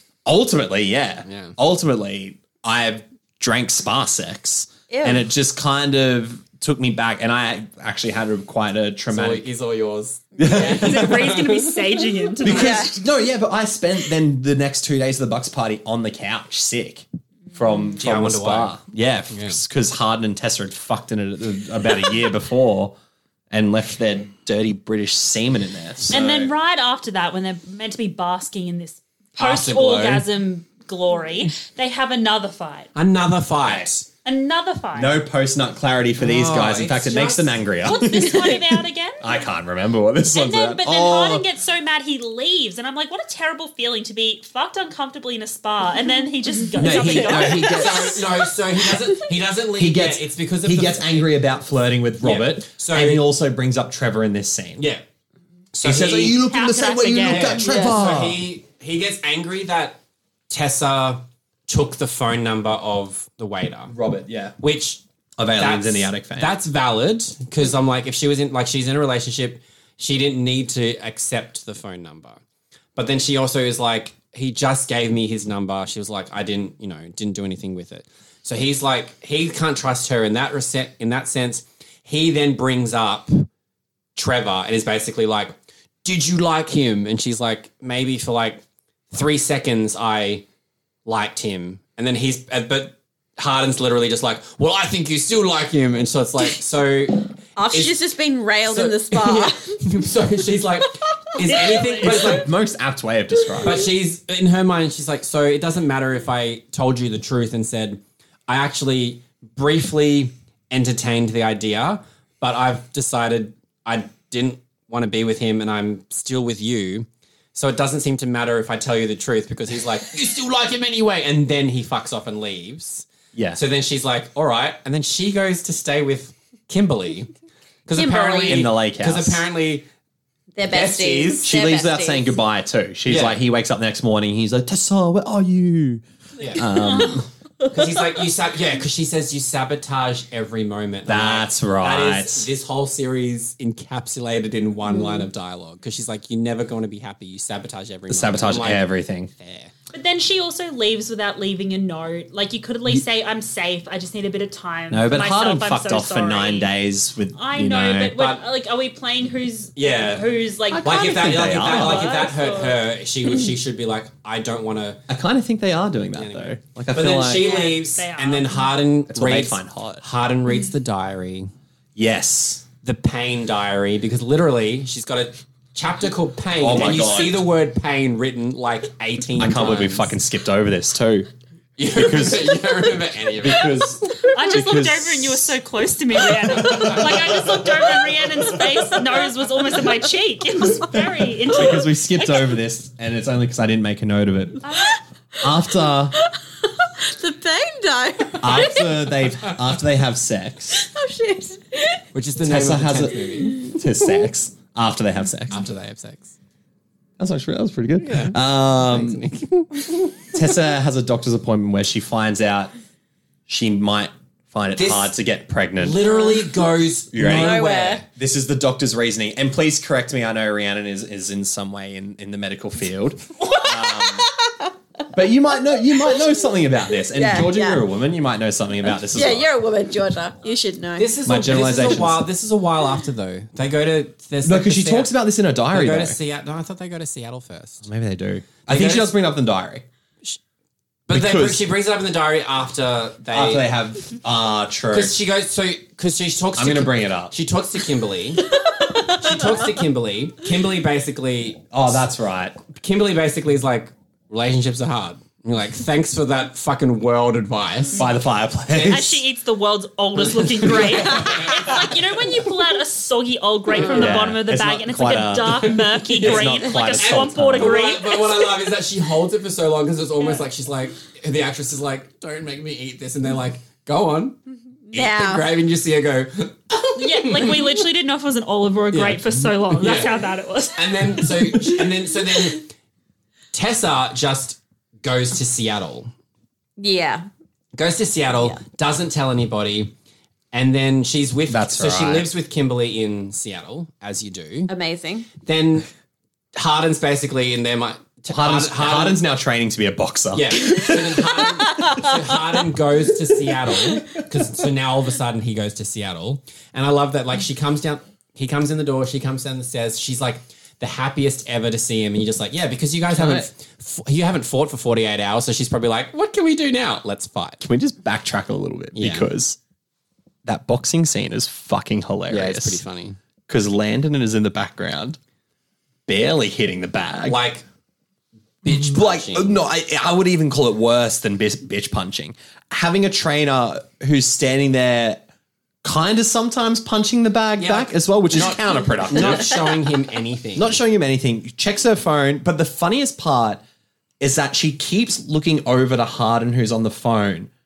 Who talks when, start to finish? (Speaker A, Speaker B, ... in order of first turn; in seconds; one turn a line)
Speaker A: 0.2-9.4
Speaker B: 1.2-1.6
Speaker C: 4.9-5.2
Speaker B: 9.1-11.8
Speaker A: 10.4-11.3
Speaker C: 10.4-10.8
Speaker D: 10.5-12.9
Speaker A: 12.4-22.9
Speaker C: 12.4-13.0
Speaker B: 18.0-18.8
Speaker B: 19.3-19.6
Speaker A: 23.5-26.5
Speaker D: 26.1-32.9
Speaker A: 29.4-30.2
Speaker B: 29.5-30.2
Speaker B: 32.9-34.1
Speaker A: 33.6-33.9
Speaker D: 34.2-35.1
Speaker A: 34.9-38.6
Speaker B: 36.2-37.6
Speaker D: 37.8-39.3
Speaker A: 39.2-41.4
Speaker D: 40.3-48.1
Speaker A: 46.8-48.2
Speaker B: 46.8-51.3
Speaker C: 47.1-48.0
Speaker A: 49.8-54.8
Speaker B: 52.2-53.3
Speaker B: 54.8-55.0
Speaker B: 55.7-56.4
Speaker A: 55.8-58.4
Speaker D: 56.3-57.6
Speaker B: 57.2-63.9
Speaker C: 57.6-57.9
Speaker A: 63.9-64.6
Speaker B: 64.6-65.0
Speaker A: 65.4-66.5
Speaker B: 65.5-72.4
Speaker B: 73.0-83.5
Speaker B: 84.1-90.4
Speaker B: 91.0-98.0
Speaker C: 97.5-99.8
Speaker B: 98.6-102.5
Speaker D: 101.7-102.2
Speaker A: 102.0-103.9
Speaker B: 103.6-127.3
Speaker A: 123.3-123.6
Speaker B: 127.8-129.9
Speaker C: 127.9-128.7
Speaker A: 128.5-129.4
Speaker C: 130.5-132.3
Speaker B: 130.7-131.5
Speaker A: 131.4-137.3
Speaker B: 133.1-133.4
Speaker B: 136.4-149.7
Speaker A: 141.1-142.5
Speaker C: 144.9-145.3
Speaker A: 148.1-149.3
Speaker D: 149.9-156.7
Speaker A: 154.9-158.2
Speaker D: 157.3-162.8
Speaker B: 158.1-158.4
Speaker B: 159.8-160.3
Speaker A: 160.7-162.2
Speaker B: 160.8-165.0
Speaker A: 165.1-167.6
Speaker B: 166.1-171.5
Speaker D: 167.2-168.7
Speaker A: 169.1-170.0
Speaker A: 171.9-172.6
Speaker B: 172.8-180.2
Speaker A: 176.6-177.4
Speaker A: 179.4-181.3
Speaker B: 181.8-183.8
Speaker A: 181.9-182.6
Speaker A: 183.4-185.5
Speaker D: 184.2-192.5
Speaker A: 186.2-188.7
Speaker A: 190.8-194.8
Speaker D: 194.6-195.0
Speaker A: 195.4-196.2
Speaker C: 196.2-198.9
Speaker A: 198.4-200.8
Speaker C: 200.7-202.0
Speaker B: 202.1-203.7
Speaker A: 202.4-205.6
Speaker C: 203.4-204.2
Speaker B: 205.5-206.3
Speaker A: 207.2-209.2
Speaker B: 208.0-210.2
Speaker A: 210.3-212.7
Speaker A: 213.5-216.1
Speaker B: 214.8-215.1
Speaker B: 215.8-218.0
Speaker C: 216.1-216.4
Speaker A: 217.1-224.3
Speaker C: 217.3-218.0
Speaker C: 223.5-224.7
Speaker A: 225.1-229.5
Speaker C: 225.9-226.2
Speaker C: 227.1-227.8
Speaker C: 229.0-231.2
Speaker B: 231.0-235.1
Speaker A: 231.2-232.3
Speaker A: 234.4-236.2
Speaker B: 235.7-237.9
Speaker A: 237.8-239.8
Speaker B: 238.7-239.2
Speaker B: 241.1-243.7
Speaker A: 241.1-241.7
Speaker A: 243.3-245.2
Speaker B: 244.9-252.0
Speaker A: 246.6-247.3
Speaker C: 248.8-249.3
Speaker A: 251.7-252.6
Speaker B: 252.7-258.1
Speaker A: 257.9-259.2
Speaker D: 258.7-268.4
Speaker B: 260.6-261.9
Speaker A: 260.6-261.2
Speaker B: 263.8-264.1
Speaker A: 263.9-267.9
Speaker B: 265.6-274.4
Speaker C: 274.9-275.5
Speaker B: 274.9-277.8
Speaker D: 277.0-281.7
Speaker B: 278.9-282.7
Speaker B: 283.5-286.1
Speaker C: 286.8-287.3
Speaker B: 287.7-289.9
Speaker B: 290.5-294.7
Speaker A: 291.5-292.3
Speaker C: 294.7-295.3
Speaker B: 295.4-295.9
Speaker B: 296.5-299.2
Speaker A: 298.3-302.1
Speaker B: 300.3-317.6
Speaker A: 313.1-313.5
Speaker A: 317.6-319.6
Speaker B: 318.9-319.3
Speaker A: 320.4-322.8
Speaker B: 322.3-323.2
Speaker A: 323.5-325.2
Speaker A: 326.1-327.4
Speaker B: 327.2-327.6
Speaker B: 328.6-329.6
Speaker A: 328.6-335.2
Speaker A: 335.8-339.6
Speaker B: 337.6-340.8
Speaker A: 340.6-343.6
Speaker A: 344.2-347.5